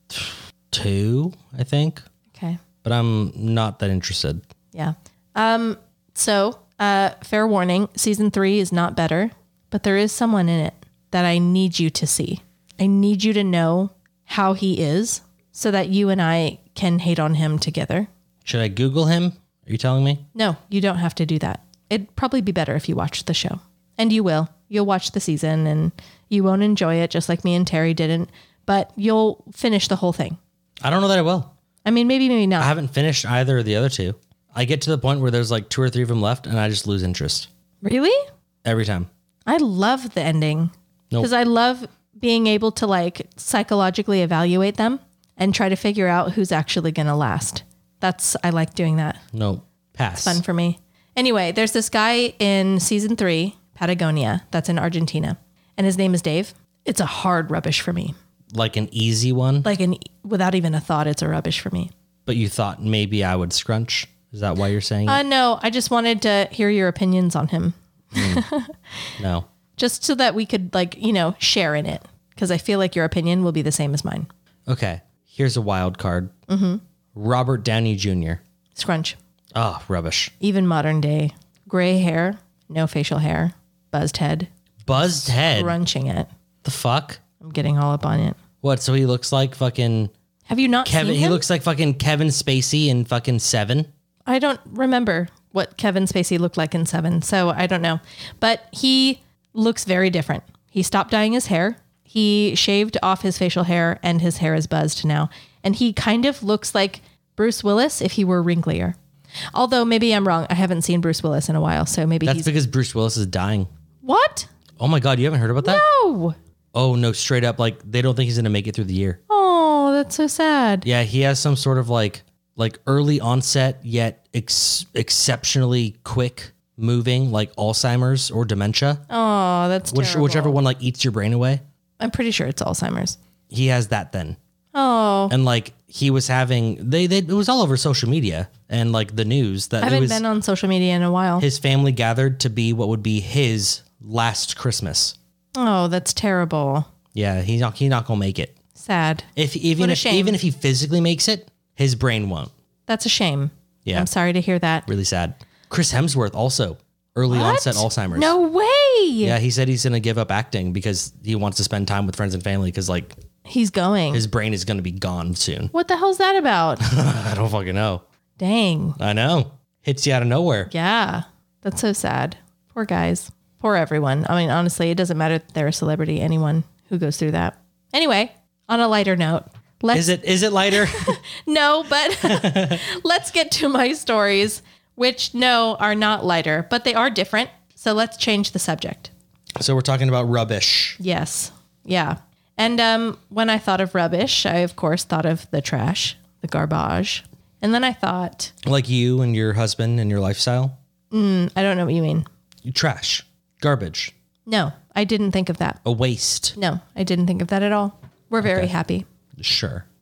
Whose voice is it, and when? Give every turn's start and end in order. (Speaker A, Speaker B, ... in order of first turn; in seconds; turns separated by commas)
Speaker A: 0.1-2.0, Speaker B: 2.3-2.6, Speaker A: 2.8-4.4, Speaker B: 4.7-18.1, Speaker A: 18.4-20.3, Speaker B: 20.4-30.4, Speaker A: 30.8-31.5, Speaker B: 31.9-32.7, Speaker A: 32.6-37.5, Speaker B: 37.8-38.2, Speaker A: 38.6-39.1, Speaker B: 39.5-49.2, Speaker A: 49.3-50.4, Speaker B: 50.2-58.2, Speaker A: 58.5-59.7, Speaker B: 59.6-61.9, Speaker A: 62.3-65.2, Speaker B: 65.1-68.8, Speaker A: 68.2-68.4, Speaker A: 69.2-69.5, Speaker B: 69.8-74.3, Speaker A: 74.7-76.3, Speaker B: 76.5-76.8, Speaker A: 77.2-78.4, Speaker B: 78.8-79.2, Speaker A: 79.5-80.3, Speaker B: 80.4-84.5, Speaker A: 84.8-85.8, Speaker B: 85.3-86.3, Speaker A: 86.6-87.2, Speaker B: 87.4-88.4, Speaker A: 88.6-90.1, Speaker B: 90.5-91.4, Speaker A: 90.8-93.9, Speaker B: 94.3-109.0, Speaker B: 109.5-112.5, Speaker A: 112.2-113.7, Speaker B: 114.0-114.5, Speaker A: 114.8-115.8, Speaker B: 115.6-116.4, Speaker A: 116.7-119.2, Speaker B: 119.3-120.9, Speaker A: 120.8-129.0, Speaker B: 129.1-130.6, Speaker A: 129.9-131.6, Speaker B: 132.0-133.2, Speaker A: 133.5-134.4, Speaker B: 134.7-135.3, Speaker A: 135.3-140.2, Speaker B: 139.8-141.5, Speaker A: 141.4-145.2, Speaker B: 145.6-146.9, Speaker A: 147.1-148.6, Speaker B: 148.8-150.4, Speaker A: 149.4-152.5, Speaker B: 152.9-154.9, Speaker A: 154.9-158.3, Speaker B: 157.3-159.4, Speaker A: 159.2-163.2, Speaker B: 163.4-164.2, Speaker A: 164.1-165.7, Speaker B: 165.7-166.8, Speaker A: 166.8-168.0, Speaker B: 168.4-169.0, Speaker A: 169.0-170.7, Speaker B: 170.7-180.1, Speaker A: 179.9-181.2, Speaker B: 180.7-189.1, Speaker A: 182.2-182.8, Speaker A: 189.6-191.0, Speaker B: 191.0-198.5, Speaker A: 198.6-200.8, Speaker B: 201.1-202.3, Speaker A: 202.7-204.1, Speaker B: 204.5-205.8, Speaker A: 205.8-206.6, Speaker B: 206.6-209.1, Speaker A: 208.4-208.7, Speaker A: 209.4-209.8